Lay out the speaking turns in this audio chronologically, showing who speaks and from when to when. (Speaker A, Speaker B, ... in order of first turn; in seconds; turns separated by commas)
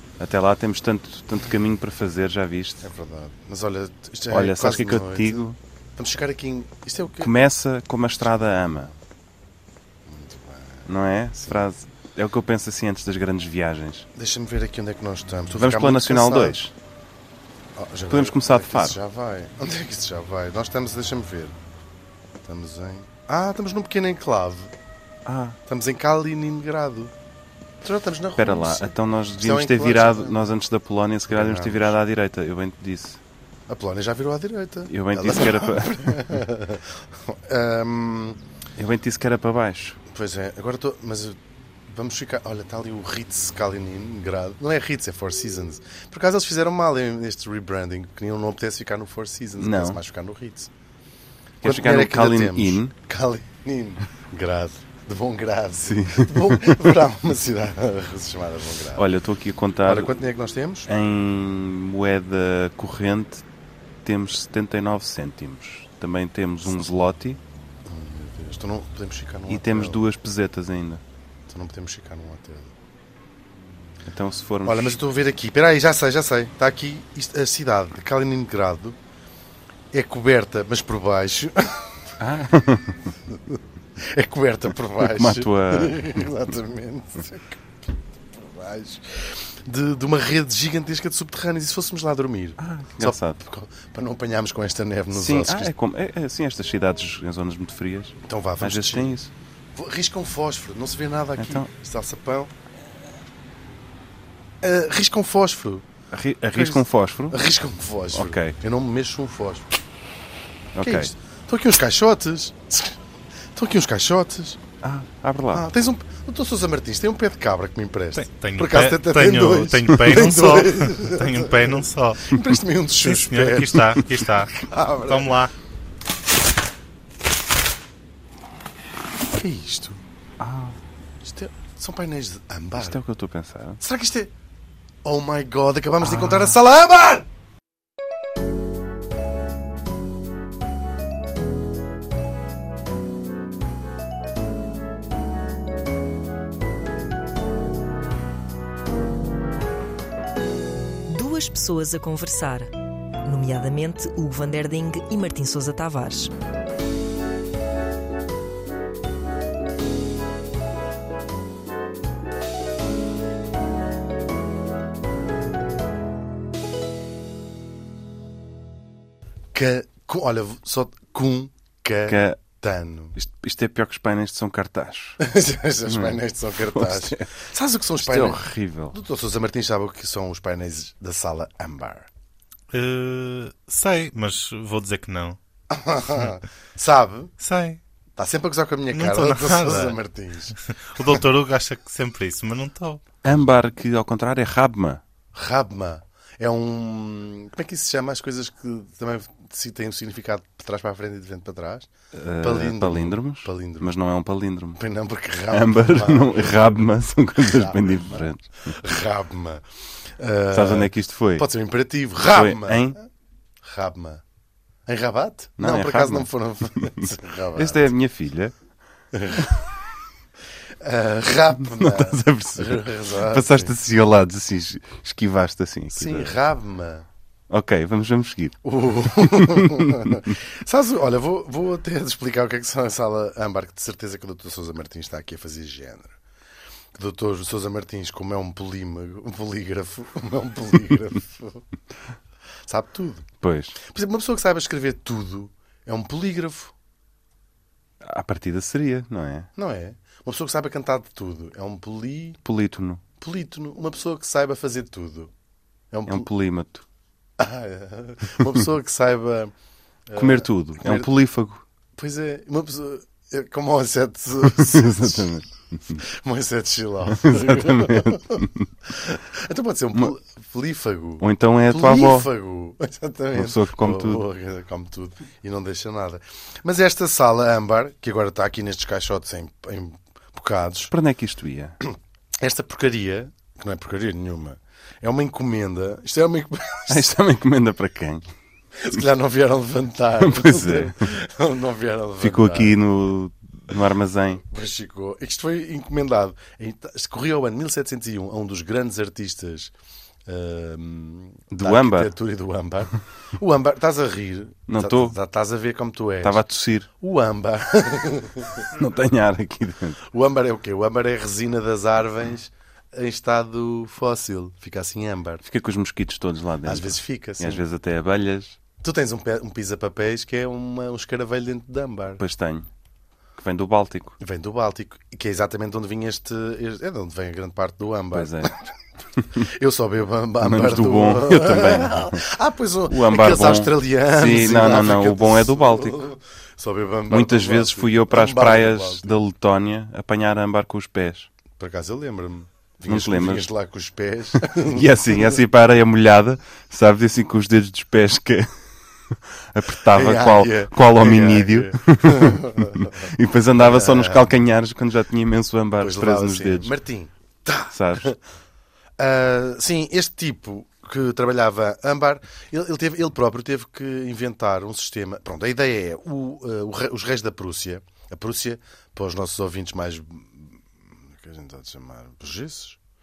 Speaker A: 0.2-2.8, Speaker B: 2.8-7.3, Speaker A: 4.3-5.6, Speaker A: 7.2-8.9, Speaker B: 10.1-11.7, Speaker A: 10.8-14.1, Speaker B: 14.1-16.6, Speaker A: 15.6-16.7, Speaker B: 17.8-21.6, Speaker A: 18.1-19.0, Speaker B: 22.4-24.7, Speaker A: 25.2-25.6, Speaker B: 25.6-27.1, Speaker B: 27.8-30.4, Speaker A: 28.4-33.2, Speaker B: 31.3-32.0, Speaker B: 33.7-38.4, Speaker A: 34.9-36.4, Speaker A: 38.8-40.0, Speaker B: 40.1-50.7, Speaker A: 49.6-50.0, Speaker A: 51.6-52.9, Speaker B: 51.6-59.0, Speaker A: 55.8-57.0, Speaker A: 58.9-60.1, Speaker B: 59.9-60.9, Speaker A: 60.9-63.4, Speaker A: 64.0-67.4, Speaker B: 67.8-70.0, Speaker A: 69.5-71.0, Speaker B: 71.5-72.7, Speaker A: 74.0-75.0, Speaker B: 74.6-79.0, Speaker B: 79.9-81.9, Speaker A: 82.2-83.1, Speaker B: 83.3-87.6, Speaker A: 85.0-86.2, Speaker B: 88.3-95.7, Speaker A: 92.6-93.4, Speaker A: 95.1-99.3, Speaker B: 98.2-99.2, Speaker B: 99.7-102.5, Speaker A: 101.4-101.7, Speaker B: 104.6-105.8, Speaker A: 106.1-107.4, Speaker B: 106.5-109.7, Speaker A: 108.1-108.5, Speaker A: 110.7-111.1, Speaker B: 110.8-113.0, Speaker B: 113.5-114.6, Speaker A: 114.8-115.7, Speaker B: 115.5-125.4, Speaker C: 118.2-122.4, Speaker C: 123.0-125.5, Speaker B: 129.3-130.0, Speaker A: 130.4-130.8, Speaker B: 131.2-133.0, Speaker A: 132.7-133.8, Speaker B: 133.8-134.3, Speaker B: 135.0-137.2, Speaker A: 136.0-136.6, Speaker D: 151.1-152.7, Speaker D: 153.2-156.3, Speaker B: 169.5-173.2, Speaker A: 172.1-172.4, Speaker A: 173.1-175.2, Speaker B: 175.2-182.1, Speaker A: 175.8-177.3, Speaker A: 178.0-179.0, Speaker C: 182.7-185.4, Speaker B: 185.7-187.3, Speaker C: 187.4-187.8, Speaker B: 188.2-190.6, Speaker C: 188.9-190.0, Speaker C: 190.7-193.0, Speaker A: 193.2-195.0, Speaker B: 195.3-203.9, Speaker A: 202.1-204.8, Speaker B: 204.8-206.8, Speaker A: 205.5-208.8, Speaker B: 207.4-209.6, Speaker B: 210.2-213.1, Speaker A: 210.5-211.5, Speaker A: 212.2-213.0, Speaker B: 213.6-214.2, Speaker B: 214.9-217.9, Speaker A: 215.6-218.5, Speaker B: 219.1-219.6, Speaker B: 220.8-223.7, Speaker A: 221.6-226.3, Speaker B: 225.9-227.1, Speaker A: 227.5-230.3, Speaker B: 228.6-236.2, Speaker B: 236.9-241.6, Speaker B: 242.7-243.3, Speaker A: 243.4-243.8, Speaker B: 243.8-246.7, Speaker A: 248.0-249.5, Speaker B: 249.6-252.4, Speaker A: 252.4-253.0, Speaker B: 253.2-255.3, Speaker B: 255.9-256.3, Speaker A: 256.1-256.8, Speaker B: 257.4-259.5, Speaker B: 260.1-261.2, Speaker A: 260.1-261.6, Speaker B: 262.0-265.3, Speaker A: 264.4-266.0, Speaker B: 265.9-280.9, Speaker A: 267.1-268.7, Speaker A: 271.2-272.3, Speaker A: 273.3-274.2, Speaker A: 280.9-281.8, Speaker B: 281.9-287.1, Speaker A: 286.9-288.3, Speaker B: 288.8-292.8, Speaker A: 290.2-291.0, Speaker A: 292.2-294.4, Speaker B: 294.4-299.7, Speaker B: 300.3-306.4, Speaker A: 301.5-302.1, Speaker A: 304.7-305.1, Speaker A: 306.2-306.9, Speaker B: 307.0-308.7, Speaker A: 308.7-310.0, Speaker B: 310.0-315.4, Speaker A: 315.4-318.6, Speaker B: 316.6-317.6, Speaker B: 318.8-322.2, Speaker A: 322.2-322.7, Speaker A: 323.4-324.2, Speaker B: 324.2-328.7, Speaker A: 328.1-328.5, Speaker B: 329.3-339.2, Speaker A: 330.4-332.2, Speaker A: 332.9-336.0, Speaker A: 337.1-341.3, Speaker B: 341.6-345.4, Speaker A: 342.9-343.5, Speaker A: 344.3-348.5, Speaker A: 349.5-356.7, Speaker B: 349.9-354.3, Speaker B: 355.8-358.2, Speaker A: 357.7-358.1, Speaker B: 359.0-372.8